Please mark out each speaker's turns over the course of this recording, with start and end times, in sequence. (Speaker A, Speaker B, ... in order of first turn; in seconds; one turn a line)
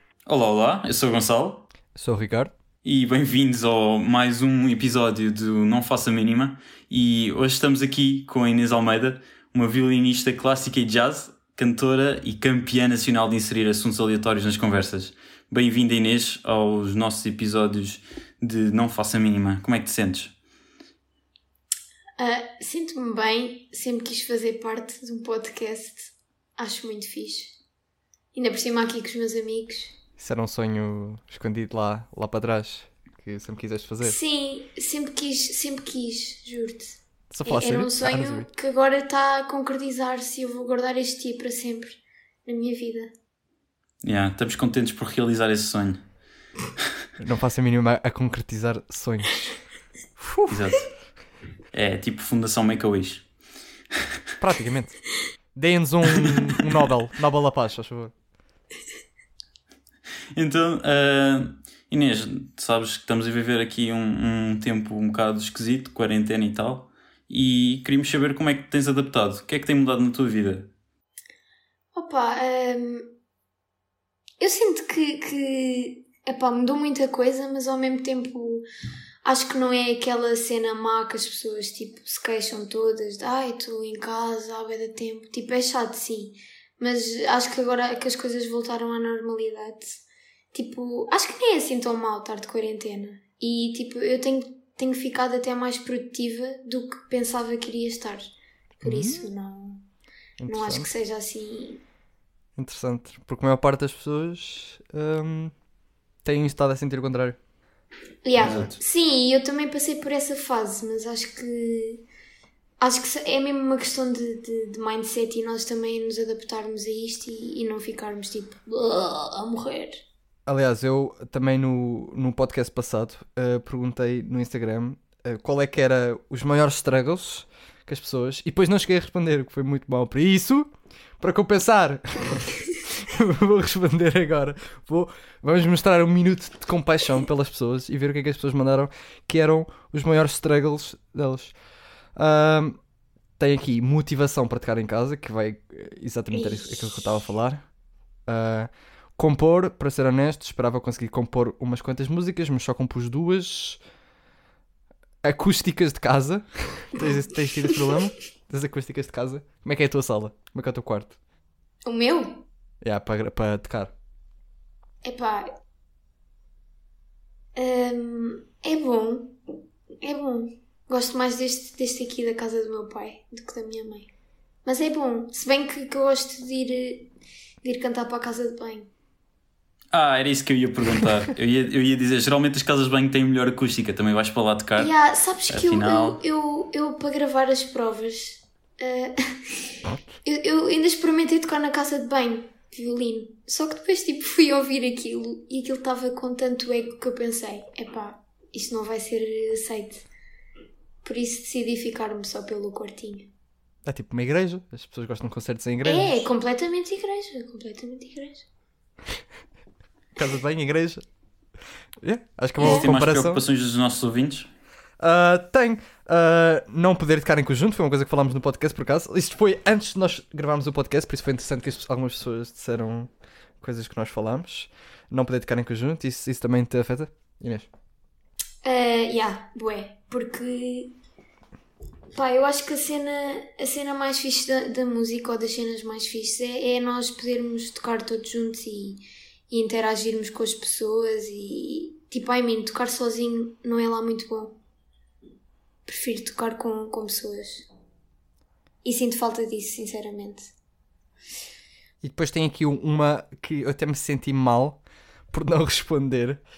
Speaker A: 0.3-1.7
Speaker B: 1.9-2.5
Speaker A: 2.8-20.3
Speaker C: 22.2-27.6
Speaker C: 28.3-30.0
Speaker B: 30.2-34.2
Speaker C: 34.0-43.1
Speaker B: 37.3-38.5
Speaker A: 44.0-46.0
Speaker B: 47.2-49.6
Speaker B: 50.2-50.6
Speaker A: 50.5-50.9
Speaker A: 51.7-53.2
Speaker B: 54.4-55.0
Speaker B: 55.5-58.1
Speaker A: 60.4-70.7
Speaker C: 71.9-73.1
Speaker C: 74.4-78.7
Speaker C: 79.2-90.0
Speaker C: 90.5-98.3
Speaker C: 98.8-99.8
Speaker B: 98.8-99.3
Speaker B: 100.4-100.9
Speaker C: 100.5-101.8
Speaker B: 102.6-105.5
Speaker B: 106.2-107.4
Speaker C: 108.2-112.0
Speaker A: 108.4-108.8
Speaker C: 112.8-120.0
Speaker B: 120.5-141.6
Speaker B: 142.2-142.8
Speaker B: 143.4-147.7
Speaker C: 146.3-146.9
Speaker B: 148.3-153.8
Speaker B: 155.2-161.2
Speaker C: 161.8-162.4
Speaker B: 162.8-163.9
Speaker C: 165.0-165.5
Speaker C: 167.6-169.4
Speaker C: 170.0-174.1
Speaker C: 174.7-177.1
Speaker C: 177.6-178.9
Speaker A: 179.9-184.9
Speaker C: 184.8-200.1
Speaker A: 185.5-186.2
Speaker C: 201.0-203.3
Speaker B: 203.9-206.3
Speaker C: 205.8-208.5
Speaker B: 210.2-211.0
Speaker B: 212.0-213.4
Speaker A: 212.6-214.5
Speaker C: 212.6-212.9
Speaker B: 215.0-227.7
Speaker C: 228.6-230.9
Speaker C: 232.1-244.6
Speaker C: 245.9-247.7
Speaker C: 248.8-250.5
Speaker B: 252.0-256.4